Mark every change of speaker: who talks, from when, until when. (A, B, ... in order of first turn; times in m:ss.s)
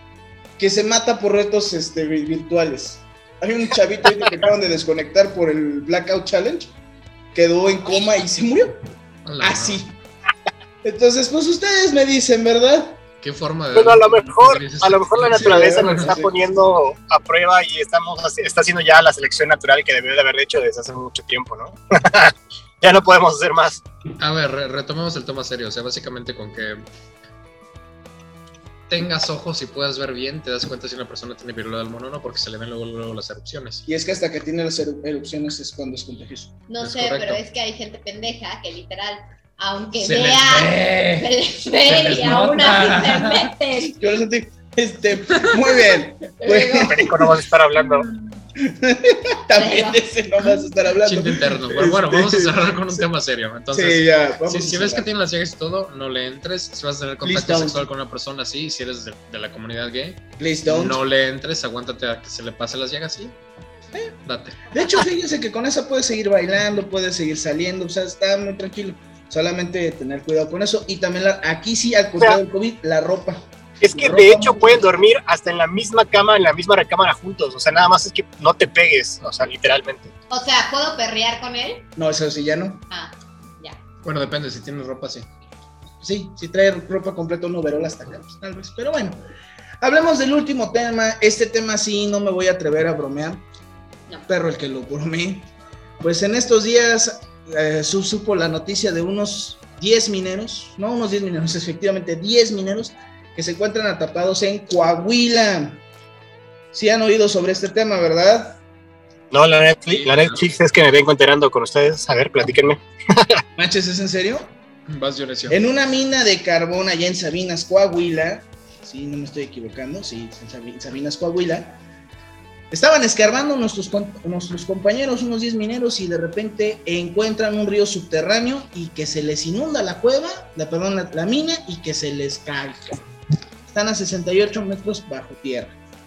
0:00.6-0:06.7 A
0:07.3-0:08.7 A
0:09.2-0:09.8 B
0:09.4-0:10.0 A
0:10.8-0:13.0 A
0:13.2-0:16.1 B
0:13.7-0:23.8 C
0:15.3-0:16.3 A
0:24.2-0:26.8 B
0:28.9-0:33.8 B
0:33.9-0:36.5 A
0:36.7-0:44.1 D
0:36.8-0:37.4 B
0:40.0-0:41.3 B
0:41.8-0:43.5 B
0:44.0-0:47.2 A
0:46.4-0:47.0 D
0:46.8-0:48.1 C
0:48.6-0:53.0 A
0:49.5-0:50.1 D
0:51.0-1:03.4 B
0:53.7-0:55.1 A
0:57.2-0:57.9 A
1:00.4-1:01.0 A
1:04.3-1:04.7 B
1:04.7-1:14.8 A
1:13.8-1:20.1 C
1:20.3-1:21.8 D
1:22.0-1:22.8 A
1:22.9-1:23.8 D
1:24.0-1:25.3 B
1:26.0-1:29.2 A
1:29.8-1:33.4 A
1:34.3-1:35.5 A
1:36.0-1:45.8 A
1:46.7-1:48.6 A
1:49.3-1:53.4 C
1:49.9-1:50.4 B
1:53.6-1:54.5 A
1:54.9-1:55.6 B
1:55.5-2:01.8 A
2:02.7-2:13.0 A
2:13.7-2:15.8 A